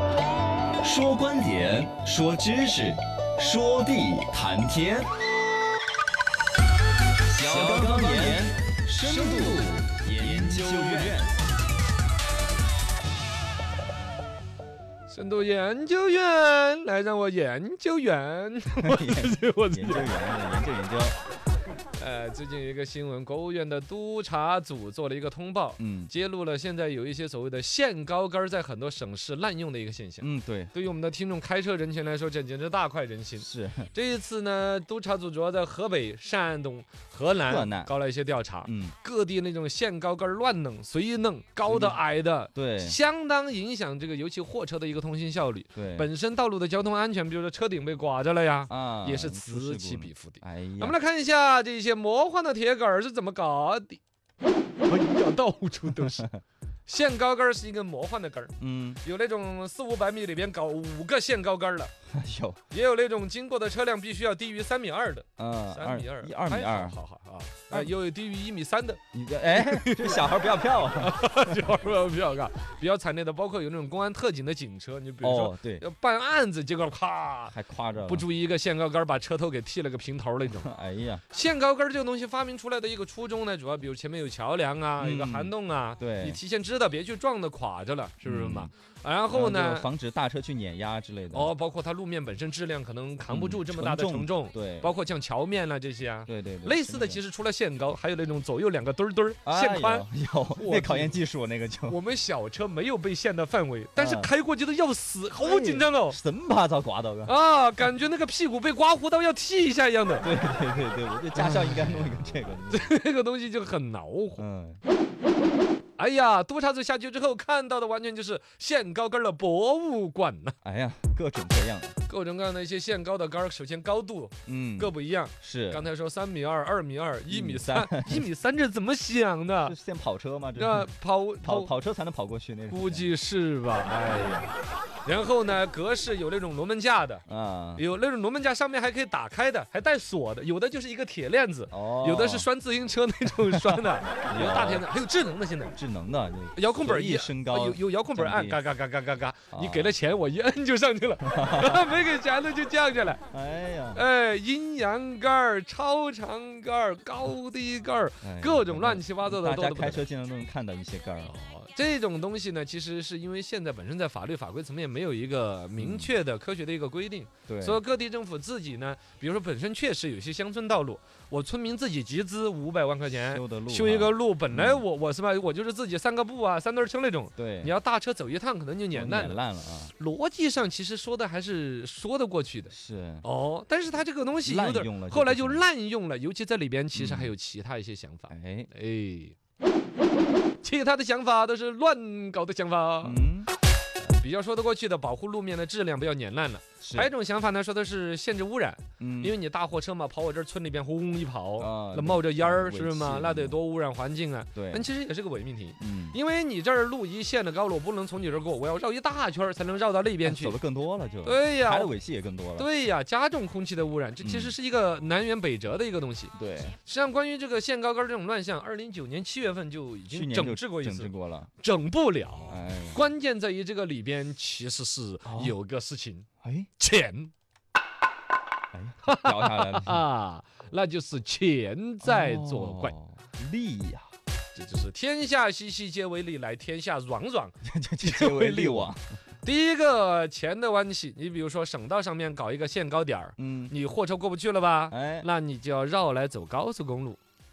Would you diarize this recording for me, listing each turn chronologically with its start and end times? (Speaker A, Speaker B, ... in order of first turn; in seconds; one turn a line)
Speaker A: 0.8-5.1
Speaker B: 7.3-8.5
Speaker A: 7.3-11.4
Speaker B: 9.1-11.2
Speaker B: 15.1-20.1
Speaker A: 18.8-21.1
Speaker B: 22.0-54.0
Speaker A: 25.8-26.1
Speaker A: 30.2-30.7
Speaker A: 33.4-33.9
Speaker A: 37.4-37.9
Speaker A: 38.6-38.9
Speaker A: 41.6-42.0
Speaker A: 42.5-43.0
Speaker A: 45.7-46.1
Speaker A: 48.7-51.0
Speaker B: 54.8-56.3
Speaker A: 56.0-56.4
Speaker B: 56.9-61.9
Speaker A: 58.6-59.0
Speaker A: 62.1-62.6
Speaker B: 62.7-69.0
Speaker A: 65.4-67.0
Speaker A: 69.1-71.2
Speaker B: 69.5-70.2
Speaker B: 71.0-80.7
Speaker A: 75.2-75.8
Speaker A: 77.5-78.2
Speaker A: 80.5-81.2
Speaker B: 81.3-89.9
Speaker A: 85.0-86.4
Speaker A: 88.2-88.7
Speaker A: 89.3-91.5
Speaker B: 91.3-101.2
Speaker A: 93.3-94.9
Speaker A: 96.3-97.2
Speaker A: 99.5-102.0
Speaker B: 101.9-106.2
Speaker A: 104.0-104.3
Speaker A: 105.4-107.3
Speaker B: 107.3-110.3
Speaker A: 110.2-112.9
Speaker B: 111.3-112.0
Speaker B: 112.7-114.4
Speaker A: 114.4-114.8
Speaker B: 116.0-120.5
Speaker A: 120.6-122.0
Speaker B: 122.1-129.8
Speaker A: 124.5-125.9
Speaker A: 127.3-128.3
Speaker A: 129.6-130.9
Speaker B: 130.6-131.7
Speaker A: 131.4-133.1
Speaker B: 132.7-134.5
Speaker B: 135.0-137.2
Speaker A: 137.3-137.8
Speaker B: 137.8-145.8
Speaker A: 141.7-142.5
Speaker A: 143.5-144.8
Speaker A: 145.7-148.6
Speaker B: 146.5-153.2
Speaker A: 149.5-149.9
Speaker A: 151.2-151.9
Speaker A: 153.3-154.0
Speaker B: 153.9-160.0
Speaker A: 158.2-161.3
Speaker B: 161.2-189.3
Speaker A: 165.8-166.1
Speaker A: 167.5-167.8
Speaker A: 173.1-174.8
Speaker A: 177.4-177.7
Speaker A: 178.9-179.9
Speaker A: 182.7-183.2
Speaker A: 184.4-185.6
Speaker A: 186.9-187.3
Speaker A: 188.3-188.7
Speaker B: 190.6-193.2
Speaker A: 193.0-193.5
Speaker B: 194.0-210.6
Speaker A: 196.8-197.1
Speaker A: 199.0-199.3
Speaker A: 201.6-203.6
Speaker A: 204.5-204.9
Speaker A: 205.8-206.2
Speaker A: 210.2-212.7
Speaker B: 211.2-211.9
Speaker B: 212.6-226.3
Speaker A: 214.2-214.5
Speaker A: 216.3-216.8
Speaker A: 220.1-221.5
Speaker A: 222.5-223.0
Speaker A: 225.2-225.5
Speaker A: 226.4-226.7
Speaker B: 226.8-227.3
Speaker A: 228.7-230.0
Speaker B: 229.1-232.9
Speaker A: 232.0-234.1
Speaker B: 234.5-247.2
Speaker A: 237.6-239.0
Speaker A: 243.4-243.8
Speaker A: 244.9-245.3